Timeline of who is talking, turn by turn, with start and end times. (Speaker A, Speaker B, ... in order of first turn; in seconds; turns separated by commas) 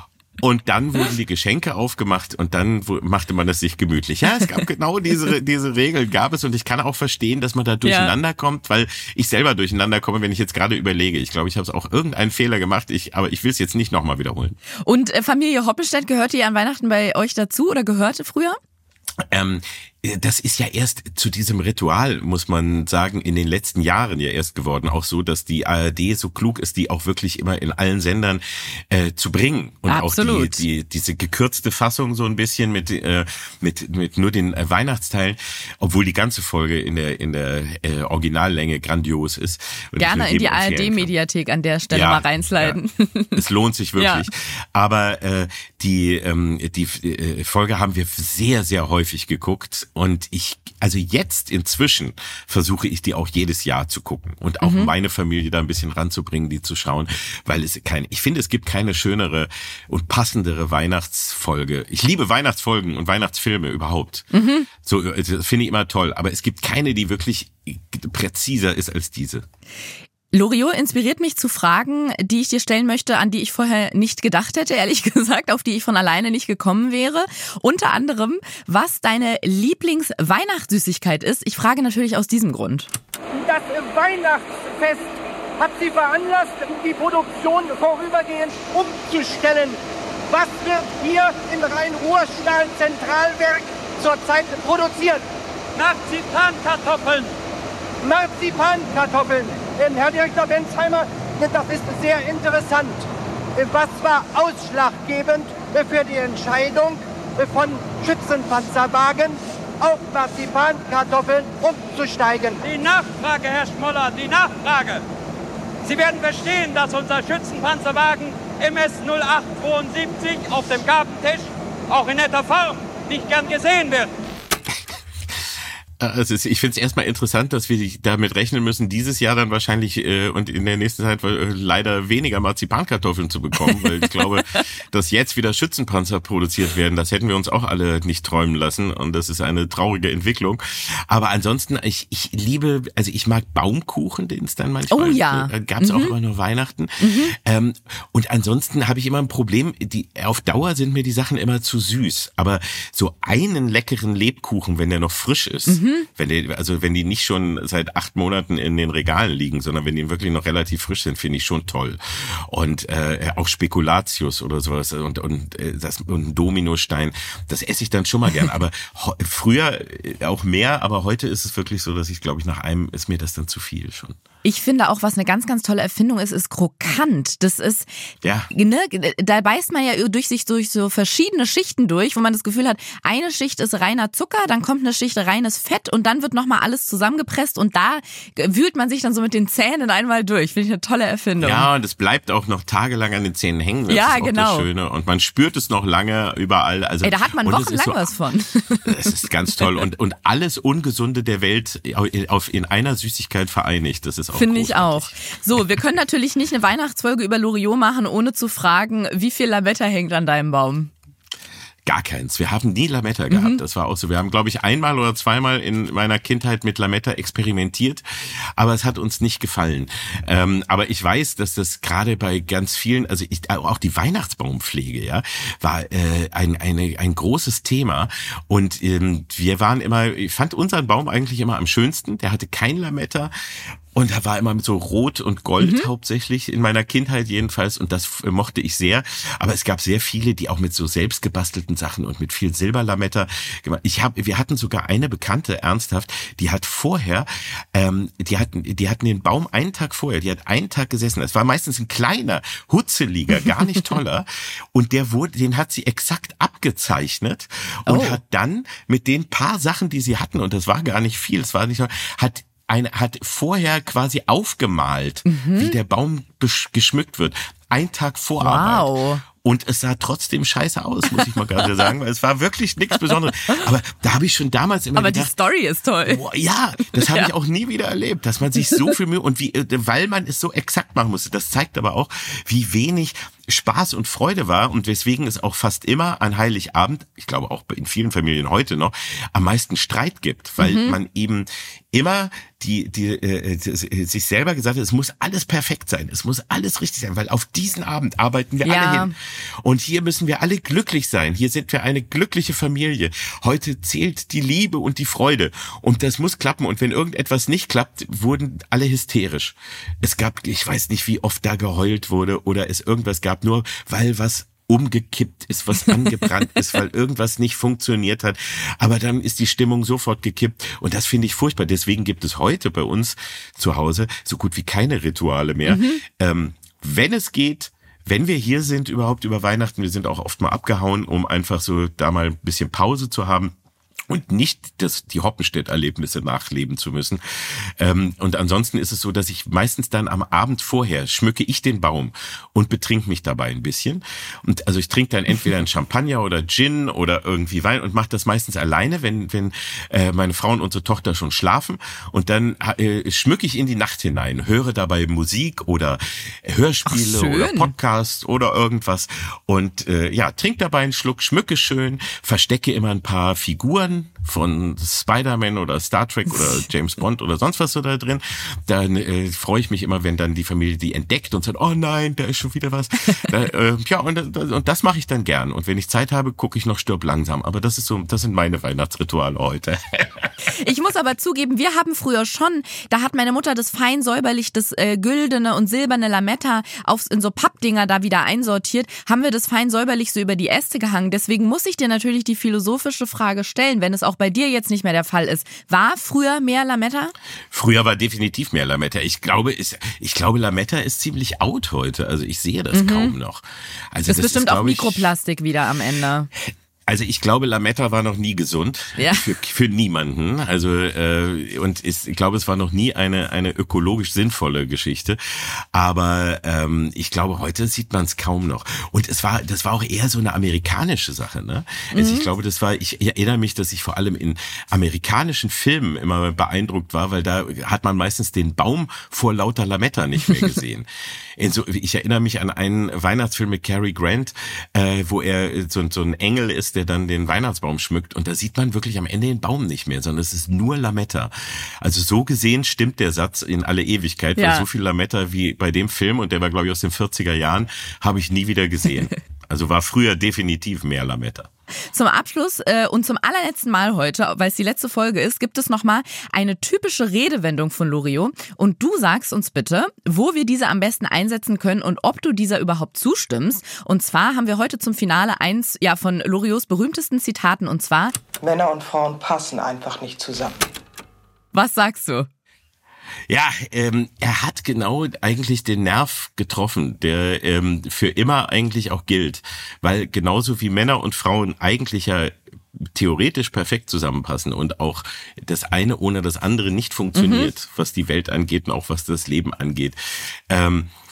Speaker A: 0.4-14.6, Speaker B: 7.8-8.1, Speaker B: 14.8-18.6, Speaker A: 19.3-41.1, Speaker B: 29.9-30.6, Speaker B: 40.0-43.4, Speaker A: 41.9-42.8, Speaker A: 43.4-64.3, Speaker B: 44.0-44.3, Speaker B: 54.6-54.9, Speaker B: 64.3-64.7, Speaker A: 64.8-69.5, Speaker B: 70.3-82.9, Speaker C: 83.3-95.2, Speaker D: 95.8-97.3, Speaker C: 98.0-112.6, Speaker D: 112.6-115.0, Speaker D: 115.8-124.1, Speaker A: 124.7-174.2, Speaker B: 144.9-146.1, Speaker B: 147.0-147.3, Speaker B: 155.7-156.1, Speaker B: 174.4-177.9, Speaker A: 178.2-178.5, Speaker B: 178.5-191.7, Speaker A: 191.4-198.1, Speaker B: 193.9-194.7, Speaker B: 197.0-198.9, Speaker A: 198.8-205.1, Speaker B: 204.3-210.9, Speaker A: 211.9-233.3, Speaker B: 213.3-213.6, Speaker A: 233.9-275.3, Speaker B: 235.6-235.9, Speaker B: 257.9-258.2, Speaker B: 265.2-265.8, Speaker B: 268.4-269.2, Speaker B: 274.9-276.2, Speaker A: 276.0-333.5, Speaker B: 277.0-277.3, Speaker B: 290.6-291.0, Speaker B: 298.6-299.1, Speaker B: 325.7-326.0, Speaker A: 334.1-380.3, Speaker B: 356.9-357.7, Speaker B: 380.5-397.1, Speaker A: 397.5-405.1, Speaker B: 402.7-403.1, Speaker B: 404.1-406.3, Speaker A: 406.9-451.5, Speaker B: 409.0-409.3, Speaker B: 421.9-422.3, Speaker B: 444.4-444.6, Speaker B: 451.9-468.1, Speaker E: 468.4-470.6, Speaker B: 471.5-472.3, Speaker A: 473.3-482.4, Speaker A: 482.9-490.9, Speaker B: 487.1-487.5